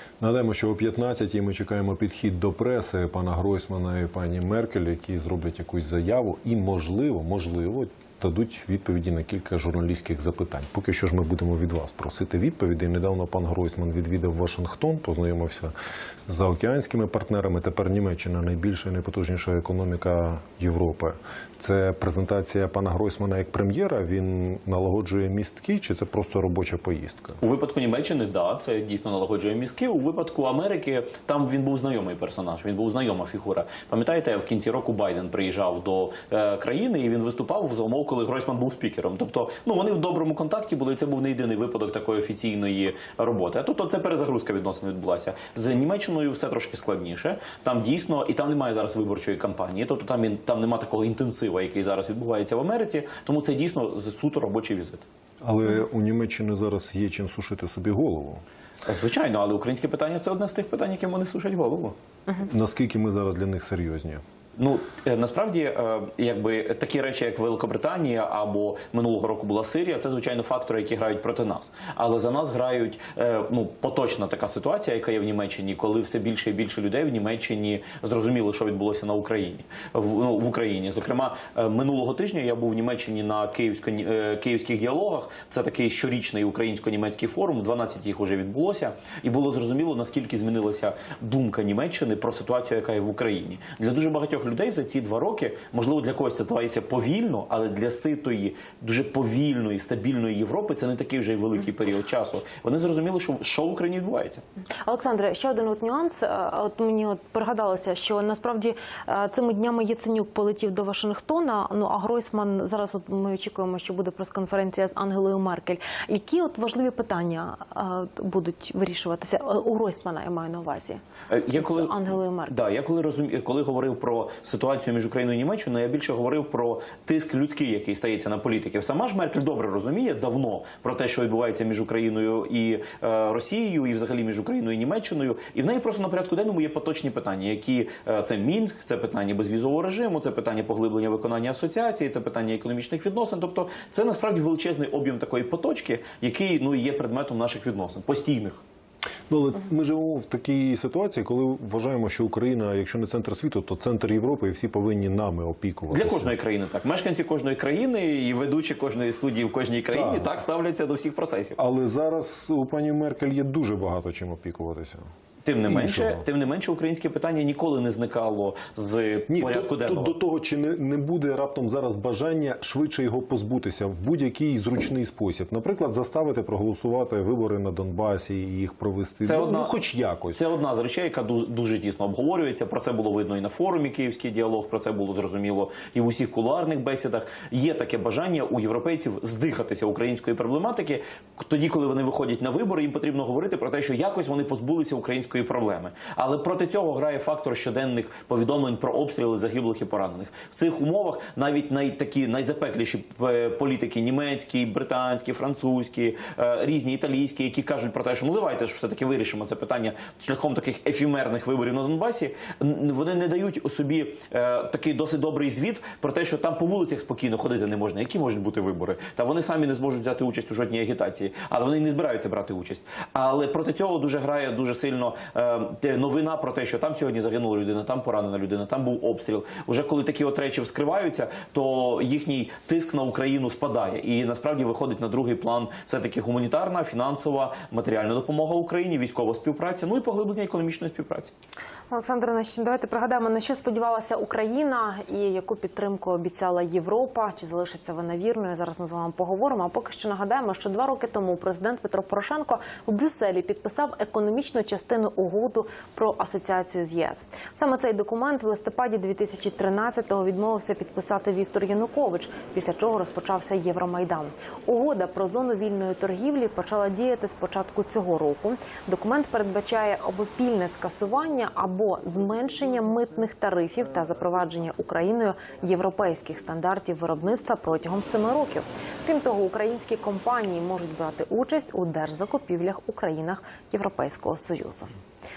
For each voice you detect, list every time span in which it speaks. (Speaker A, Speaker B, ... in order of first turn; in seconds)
Speaker A: 0.2-15.7, 16.3-27.4, 55.4-58.4, 62.4-64.2, 149.3-156.3, 159.9-160.3, 161.6-165.0, 165.7-166.2, 169.3-180.4
Speaker B: 27.4-55.0, 58.8-61.9, 64.5-104.4, 121.3-148.6, 155.9-161.6, 165.4-170.2, 179.2-179.7, 180.3-241.3
Speaker C: 104.8-121.0, 121.6-122.5, 241.9-284.9